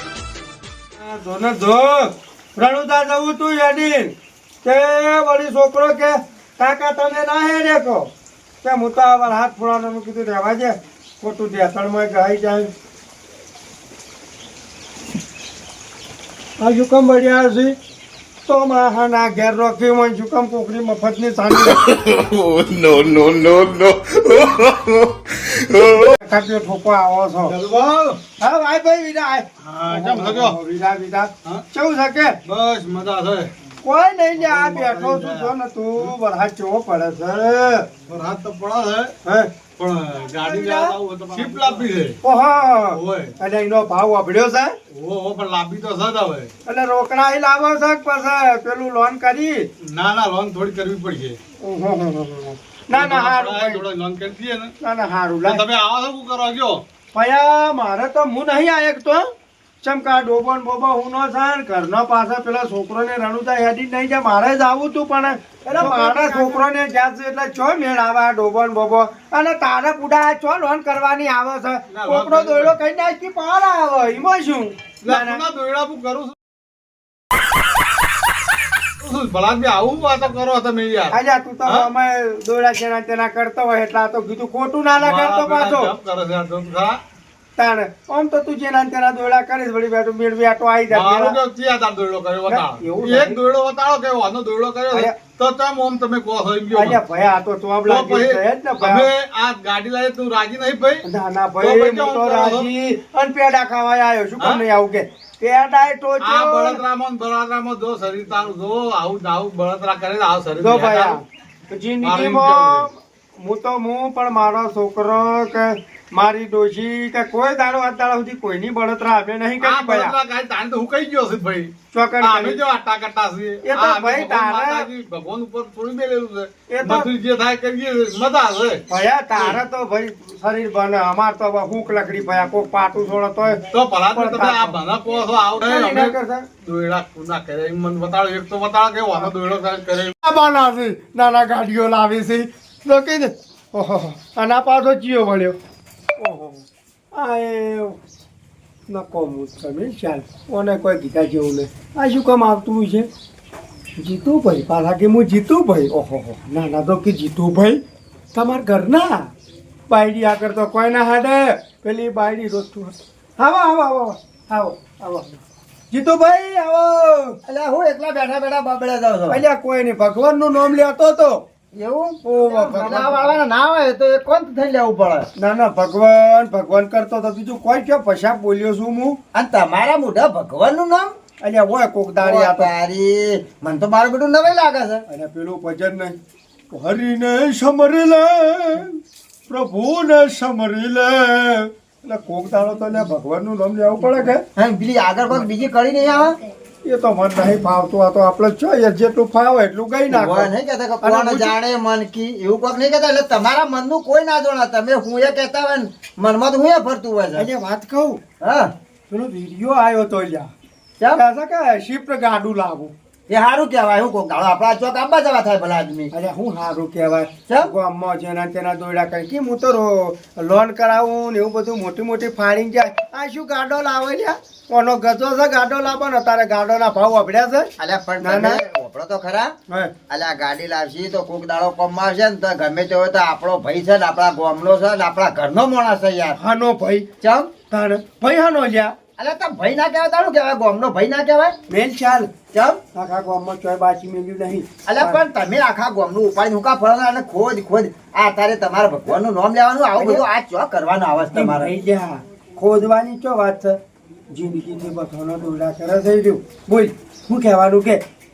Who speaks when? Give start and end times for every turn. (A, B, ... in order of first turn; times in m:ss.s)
0:01.0-0:08.1 A
0:08.6-0:12.7 A
0:16.6-0:17.8 A
0:18.4-0:21.9 A
0:21.8-0:26.0 B
0:26.0-0:27.5 A
0:27.5-0:28.2 B
0:28.4-0:32.4 A
0:29.6-0:30.6 B
0:32.4-0:33.5 B
0:33.8-0:37.9 A
0:34.4-0:35.5 B
0:38.0-0:39.1 B
0:39.2-0:39.5 A
0:39.8-0:42.2 B
0:40.4-0:41.0 A
0:42.2-0:44.7 A
0:42.9-0:43.3 B
0:44.9-0:46.5 B
0:46.6-0:49.7 A
0:49.8-0:51.4 B
0:51.6-0:53.8 A
0:52.9-0:54.7 B
0:54.8-0:55.6 A
0:55.4-0:56.8 B
0:57.1-0:59.3 A
0:59.8-1:15.4 A
1:05.7-1:06.5 B
1:11.9-1:12.8 B
1:15.0-1:16.3 B
1:19.0-1:21.9 B
1:21.1-1:25.9 A
1:25.0-1:27.0 B
1:27.6-1:31.4 A
1:30.9-1:37.0 B
1:32.5-1:33.4 A
1:36.7-1:39.1 A
1:37.8-1:41.0 B
1:41.0-1:46.8 A
1:41.6-1:42.7 B
1:46.2-1:51.2 B
1:50.6-2:00.2 A
1:52.0-1:52.9 B
1:59.6-2:08.8 B
2:01.9-2:02.6 A
2:03.6-2:04.9 A
2:06.7-2:07.1 A
2:08.9-2:14.8 A
2:13.7-2:20.1 B
2:15.6-2:16.5 A
2:20.2-2:25.6 A
2:26.2-2:28.0 A
2:28.9-2:33.1 A
2:34.0-2:37.8 A
2:38.3-2:39.3 A
2:39.9-2:47.4 A
2:47.4-2:49.4 C
2:49.3-2:51.4 A
2:51.7-2:55.3 C
2:52.2-2:53.4 A
2:55.4-2:59.2 A
2:59.3-3:01.1 C
3:01.4-3:02.7 A
3:02.2-3:05.0 C
3:05.1-3:06.2 A
3:06.7-3:14.4 A
3:14.6-3:16.4 C
3:16.8-3:20.5 A
3:20.1-3:27.5 C
3:21.0-3:21.6 A
3:27.4-3:28.2 A
3:28.4-3:28.7 C
3:29.1-3:30.5 A
3:31.1-3:32.9 A
3:33.3-3:36.1 C
3:36.1-3:48.6 A
3:47.8-3:49.5 C
3:50.1-3:56.4 C
3:56.4-3:57.1 A
3:57.2-3:57.5 C
3:57.7-3:58.9 A
3:59.2-4:01.5 C
4:01.7-4:02.3 A
4:02.5-4:02.8 C
4:02.9-4:05.2 A
4:04.8-4:11.7 C
4:10.0-4:10.2 A
4:11.3-4:13.8 A
4:14.3-4:18.0 A